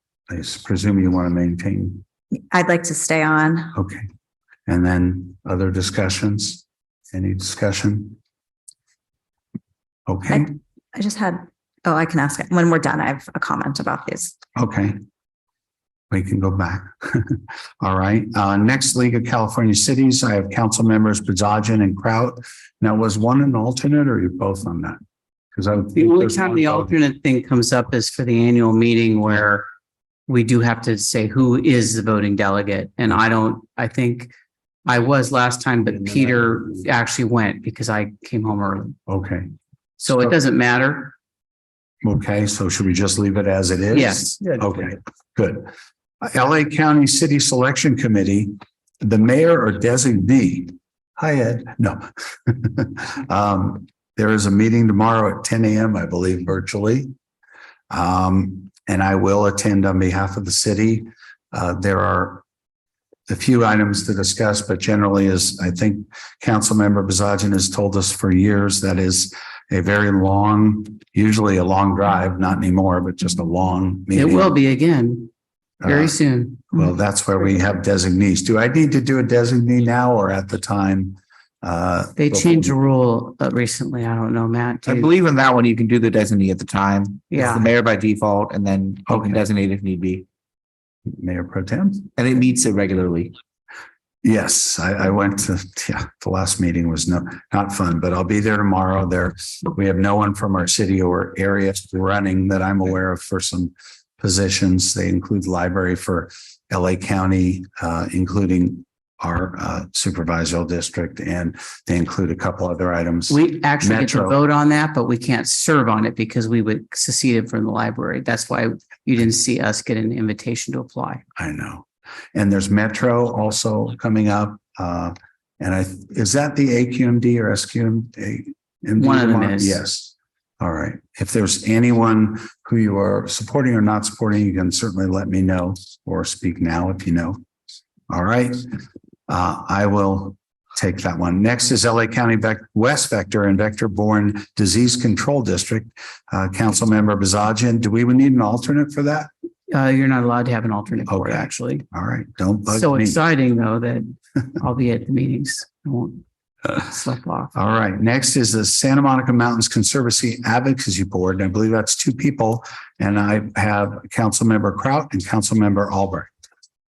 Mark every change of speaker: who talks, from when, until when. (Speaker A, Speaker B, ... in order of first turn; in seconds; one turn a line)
Speaker A: 0.3-2.0
Speaker B: 2.5-3.8
Speaker A: 3.8-4.1
Speaker A: 4.7-8.2
Speaker A: 10.1-10.6
Speaker B: 10.3-14.3
Speaker A: 14.6-15.0
Speaker A: 16.1-25.0
Speaker A: 25.5-26.9
Speaker C: 25.9-29.7
Speaker C: 30.3-34.3
Speaker C: 34.9-39.0
Speaker A: 39.1-39.5
Speaker C: 40.0-41.1
Speaker A: 42.0-57.1
Speaker C: 43.9-44.4
Speaker A: 57.9-62.4
Speaker A: 63.3-74.5
Speaker C: 74.1-75.3
Speaker A: 75.8-76.2
Speaker C: 75.8-76.7
Speaker A: 76.7-82.8
Speaker C: 82.2-85.1
Speaker D: 84.8-90.2
Speaker C: 87.3-87.7
Speaker A: 89.1-89.4
Speaker A: 91.1-92.1
Speaker D: 92.2-93.3
Speaker A: 94.2-114.4
Speaker C: 113.3-121.2
Speaker A: 121.4-137.4
Speaker C: 129.0-129.8
Speaker A: 138.1-138.7
Speaker A: 139.3-149.3
Speaker C: 149.7-151.8
Speaker A: 151.1-153.2
Speaker C: 152.7-157.5
Speaker A: 157.5-166.3